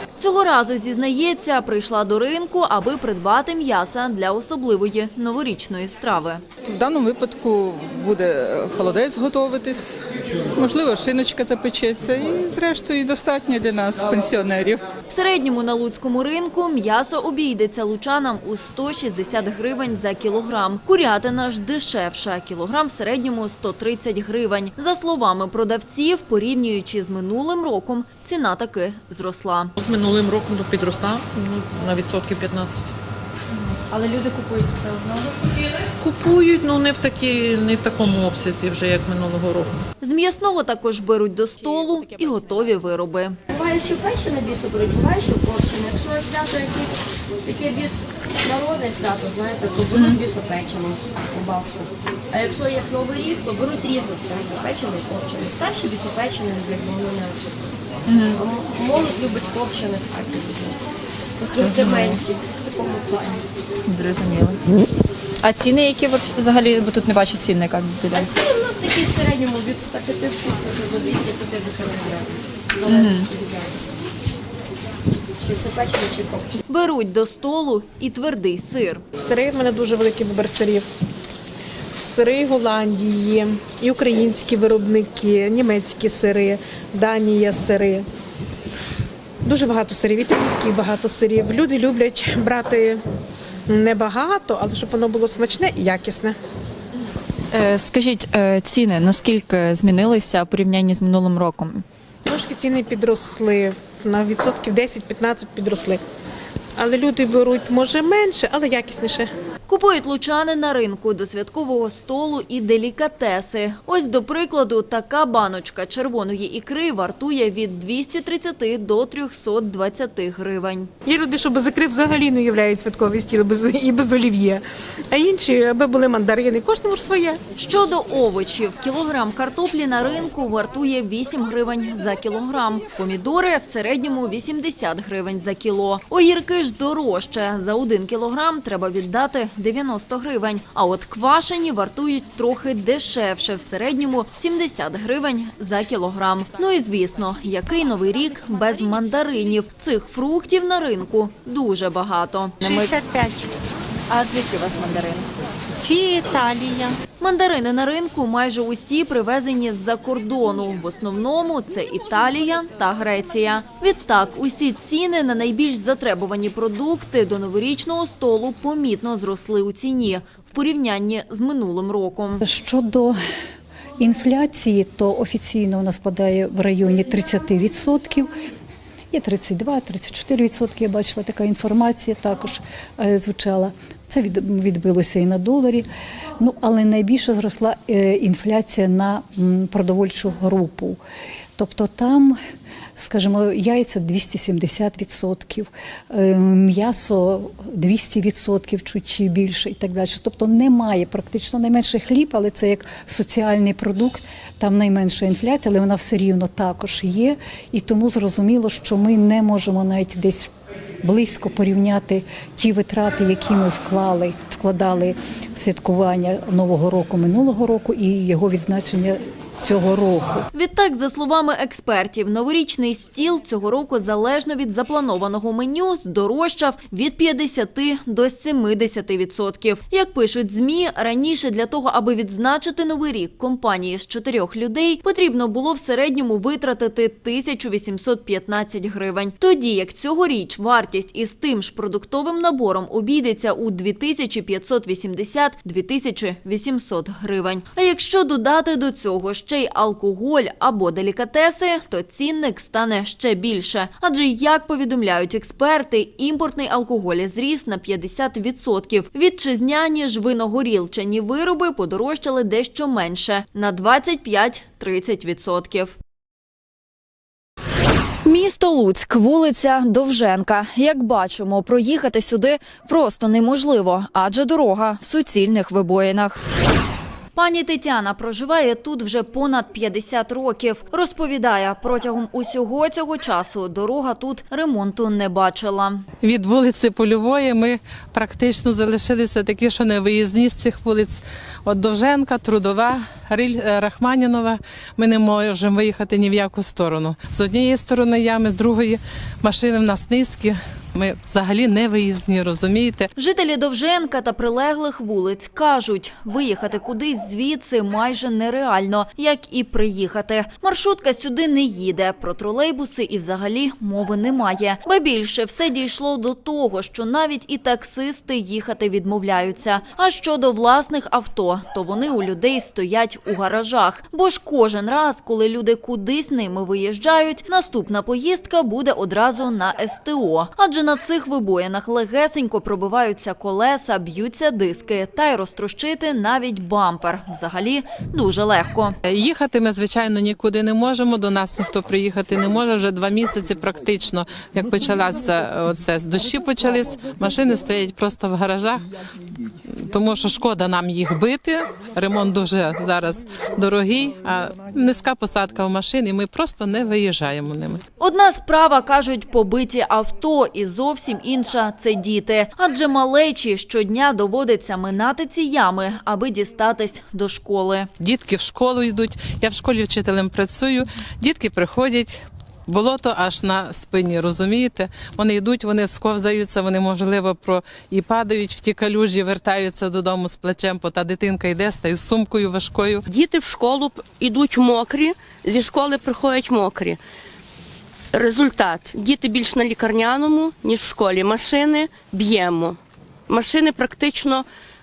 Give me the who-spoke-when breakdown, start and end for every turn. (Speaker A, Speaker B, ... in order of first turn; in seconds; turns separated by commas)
Speaker A: 0.2-6.4, Speaker B: 6.7-14.9, Speaker A: 15.1-29.7, Speaker C: 29.8-32.9, Speaker D: 33.8-35.6, Speaker C: 36.0-39.8, Speaker A: 40.0-43.4, Speaker D: 43.5-57.6, Speaker E: 49.9-50.2, Speaker E: 58.1-58.4, Speaker D: 58.3-60.8, Speaker D: 61.4-63.5, Speaker E: 61.5-62.2, Speaker E: 63.9-64.6, Speaker E: 65.4-68.3, Speaker D: 68.1-73.9, Speaker E: 72.9-73.3, Speaker D: 75.2-76.6, Speaker A: 76.7-79.0, Speaker F: 79.2-80.9, Speaker F: 82.0-88.1, Speaker F: 89.4-93.0, Speaker F: 93.7-96.4, Speaker E: 97.5-101.8, Speaker F: 102.2-106.0, Speaker F: 106.8-109.3, Speaker A: 109.7-120.9, Speaker F: 121.0-127.4, Speaker A: 127.6-152.8, Speaker A: 154.3-154.6, Speaker E: 154.8-155.1, Speaker A: 157.2-172.4, Speaker G: 172.4-173.2, Speaker G: 174.0-178.3, Speaker G: 179.1-185.9, Speaker G: 186.4-191.0, Speaker G: 191.6-192.4, Speaker G: 193.0-210.5, Speaker G: 211.0-220.5, Speaker A: 220.5-266.0, Speaker A: 268.2-275.4, Speaker E: 275.5-276.3, Speaker A: 277.4-286.0, Speaker H: 286.2-303.1, Speaker A: 303.1-339.0, Speaker H: 339.1-348.8, Speaker H: 349.8-357.8, Speaker A: 358.0-367.9, Speaker H: 368.0-383.0, Speaker I: 383.1-387.0, Speaker I: 388.1-392.8, Speaker I: 393.3-394.5